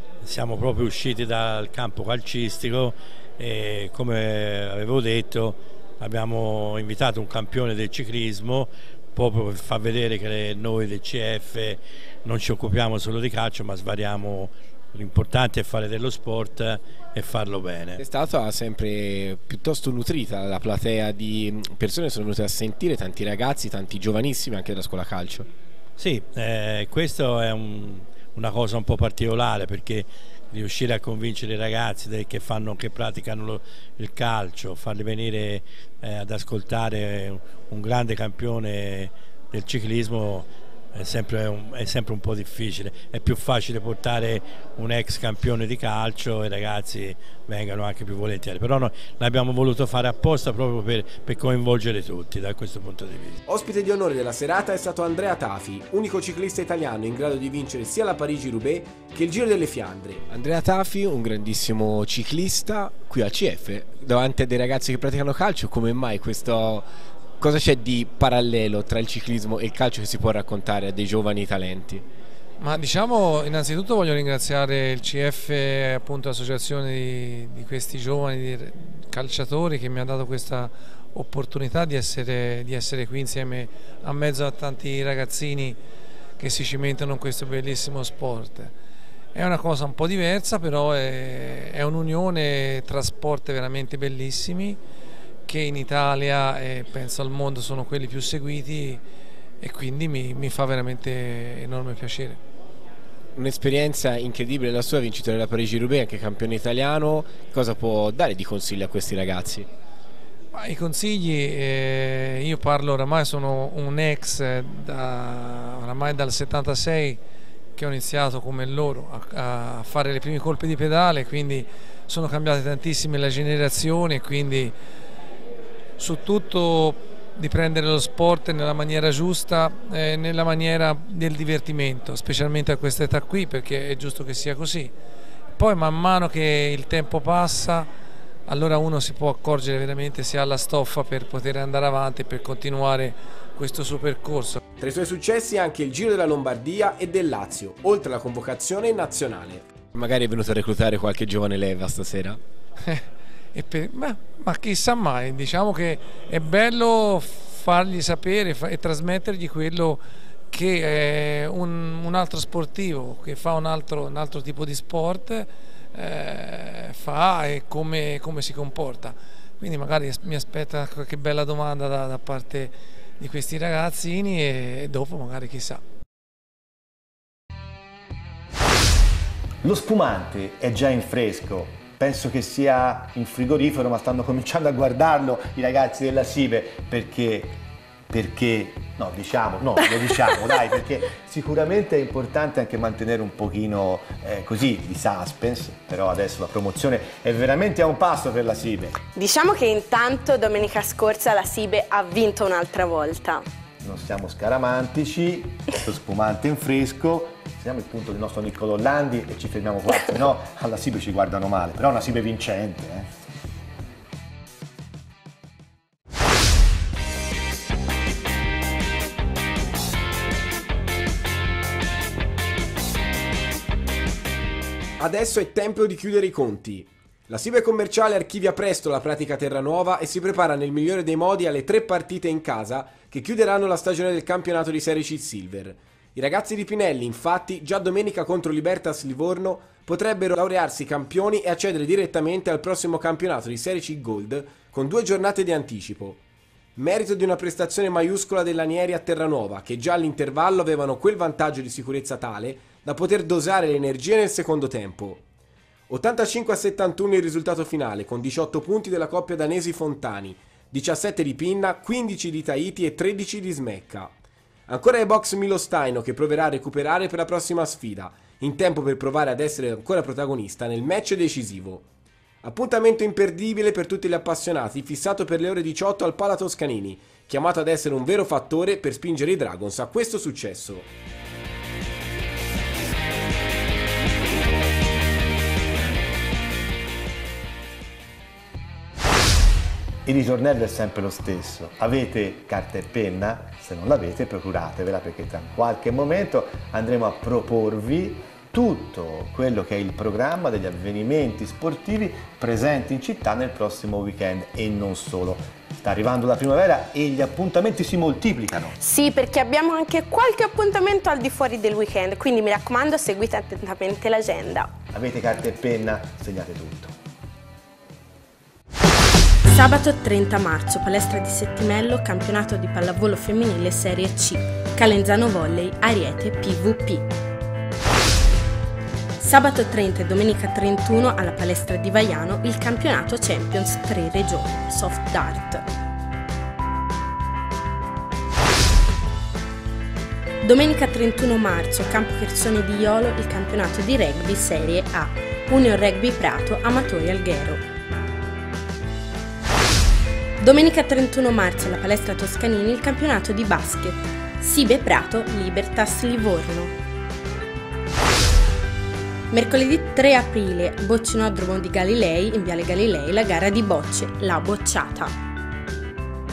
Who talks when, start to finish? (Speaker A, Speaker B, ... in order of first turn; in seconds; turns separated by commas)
Speaker A: 0.2-18.0, Speaker B: 18.0-25.5, Speaker A: 26.0-53.4, Speaker C: 53.5-60.4, Speaker B: 60.5-66.9, Speaker B: 67.4-72.0, Speaker D: 72.6-85.8, Speaker D: 86.4-88.7, Speaker D: 89.3-94.8, Speaker D: 95.5-99.0, Speaker D: 99.6-102.4, Speaker B: 103.4-109.7, Speaker D: 110.5-117.2, Speaker D: 117.8-124.7, Speaker D: 126.0-134.9, Speaker D: 135.6-137.9, Speaker D: 138.5-144.6, Speaker C: 144.8-149.8, Speaker B: 149.9-152.4, Speaker D: 153.6-175.8, Speaker E: 179.6-187.6, Speaker E: 188.1-199.0, Speaker F: 199.1-203.4, Speaker E: 203.8-213.2, Speaker C: 225.0-246.2, Speaker C: 246.8-255.2, Speaker C: 255.9-264.1, Speaker C: 264.7-271.9, Speaker C: 272.4-280.9, Speaker E: 290.1-308.8, Speaker F: 308.8-314.7, Speaker E: 314.9-317.0, Speaker F: 319.5-327.1, Speaker F: 329.2-335.6, Speaker F: 340.4-347.7, Speaker F: 350.4-356.8, Speaker F: 359.3-365.1